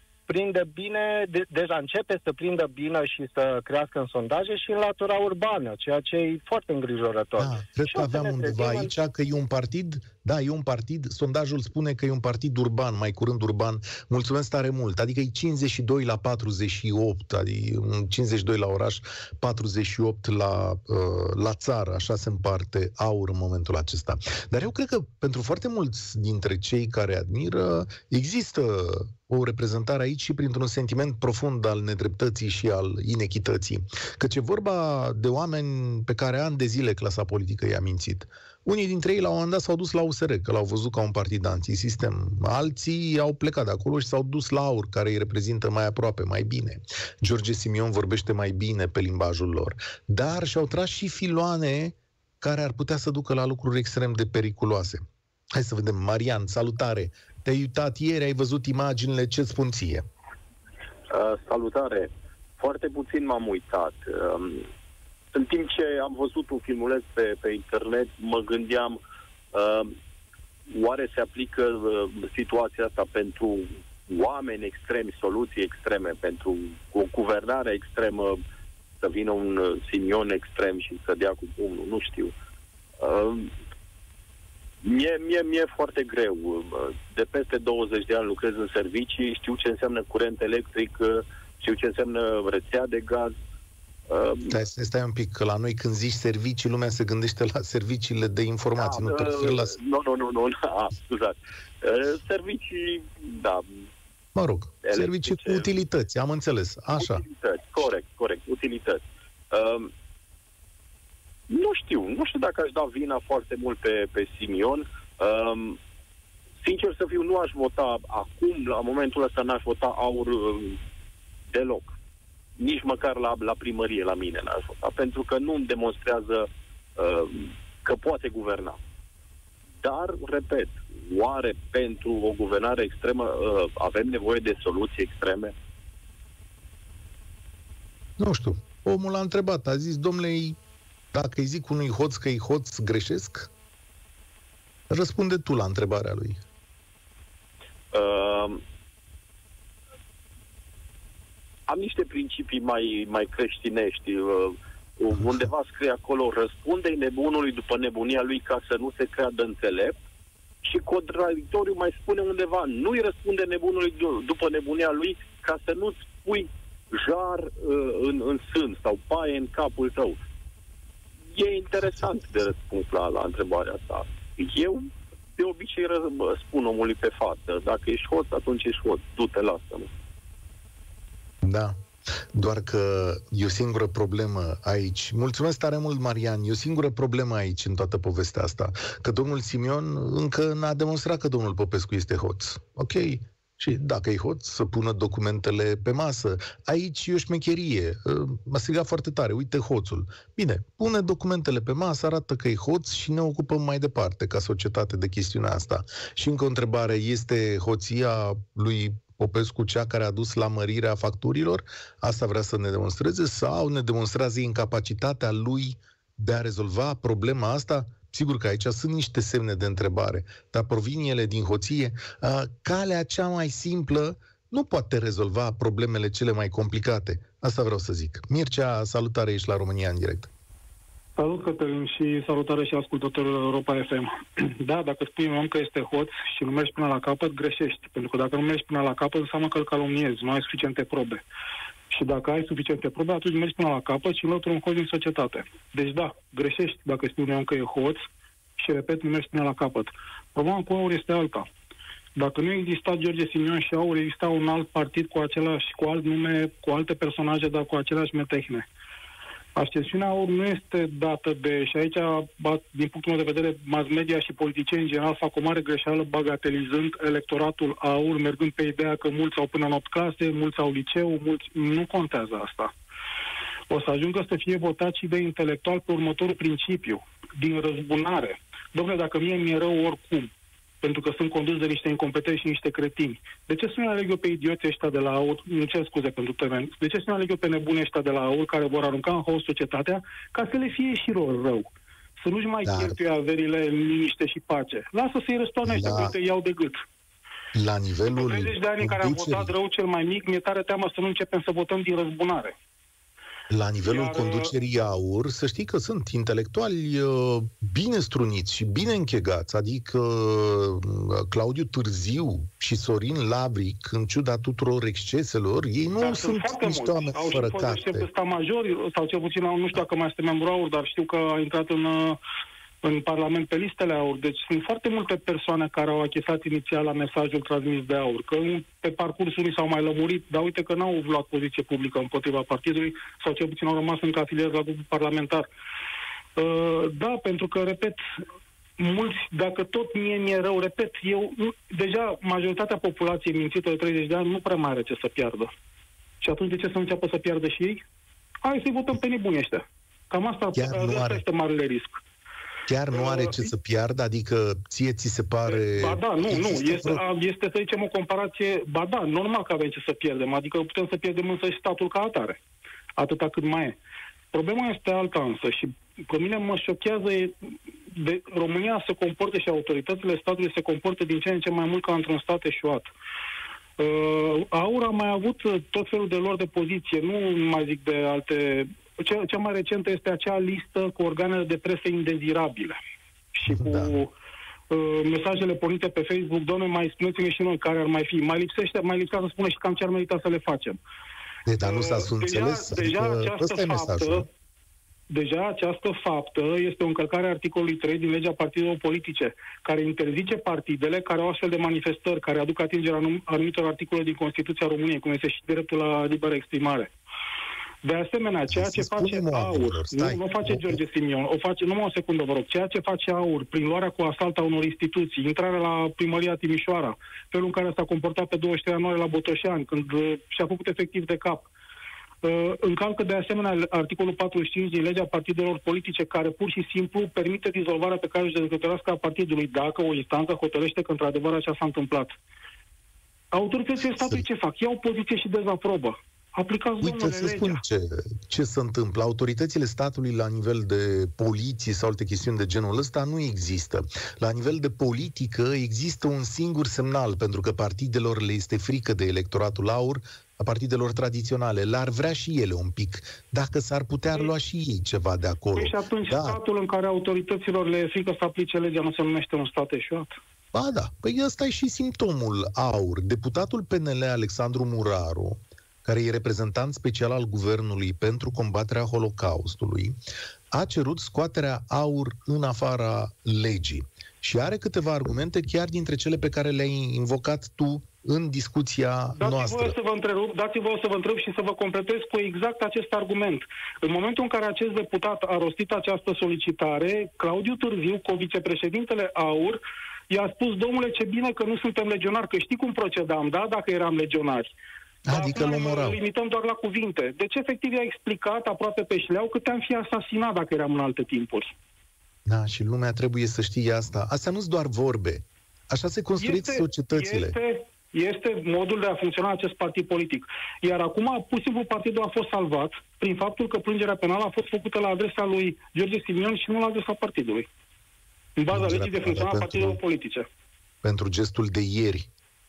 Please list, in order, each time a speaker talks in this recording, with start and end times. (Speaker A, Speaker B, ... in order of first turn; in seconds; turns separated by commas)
Speaker A: 0.3-8.9, Speaker B: 7.4-60.0, Speaker C: 61.1-64.7, Speaker C: 65.3-69.0, Speaker C: 69.5-69.9, Speaker C: 70.7-78.4, Speaker C: 79.0-82.3, Speaker C: 83.0-83.5, Speaker C: 84.8-93.3, Speaker C: 94.1-94.5, Speaker B: 94.5-99.8, Speaker C: 98.8-103.8, Speaker B: 104.3-107.2, Speaker C: 104.8-105.6, Speaker C: 106.9-109.9, Speaker C: 111.5-115.8, Speaker C: 116.6-120.8, Speaker C: 121.5-121.9, Speaker C: 122.6-128.8, Speaker C: 129.8-135.5, Speaker B: 138.2-140.6, Speaker B: 141.1-143.5, Speaker B: 144.9-146.4, Speaker C: 147.9-148.6, Speaker C: 151.7-159.9, Speaker C: 160.6-170.2, Speaker C: 171.3-179.9, Speaker B: 181.4-181.8, Speaker B: 182.3-230.3, Speaker D: 231.2-241.2, Speaker D: 241.9-248.0, Speaker D: 248.6-251.5, Speaker D: 252.1-258.7, Speaker D: 259.6-272.7, Speaker D: 273.7-291.7, Speaker D: 292.2-296.8, Speaker B: 292.6-292.9, Speaker B: 295.6-296.1, Speaker B: 297.5-299.5, Speaker D: 298.1-302.5, Speaker B: 303.5-318.1, Speaker D: 303.9-304.5, Speaker D: 316.0-322.2, Speaker D: 322.8-335.5, Speaker D: 336.4-338.0, Speaker D: 338.8-345.5, Speaker D: 346.2-347.8, Speaker D: 348.4-352.0, Speaker B: 350.5-351.2, Speaker B: 352.7-357.0, Speaker D: 352.9-353.5, Speaker D: 355.5-362.4, Speaker D: 363.0-363.8, Speaker D: 364.3-367.3, Speaker D: 367.9-372.9, Speaker D: 373.8-382.8, Speaker D: 383.3-384.1, Speaker B: 383.5-384.0, Speaker D: 384.7-390.8, Speaker B: 391.4-394.3, Speaker D: 391.6-394.3, Speaker D: 395.1-406.9, Speaker D: 407.8-421.5, Speaker B: 408.5-410.8, Speaker D: 422.2-432.1, Speaker D: 433.3-437.6, Speaker B: 434.0-434.2, Speaker B: 436.8-456.4, Speaker D: 455.6-460.2, Speaker B: 460.5-470.0, Speaker B: 470.5-479.7, Speaker D: 479.2-494.5, Speaker B: 495.1-496.0, Speaker D: 495.1-501.5, Speaker B: 502.2-507.3, Speaker D: 506.2-517.5, Speaker D: 518.4-520.2, Speaker B: 518.5-519.8, Speaker B: 520.8-522.1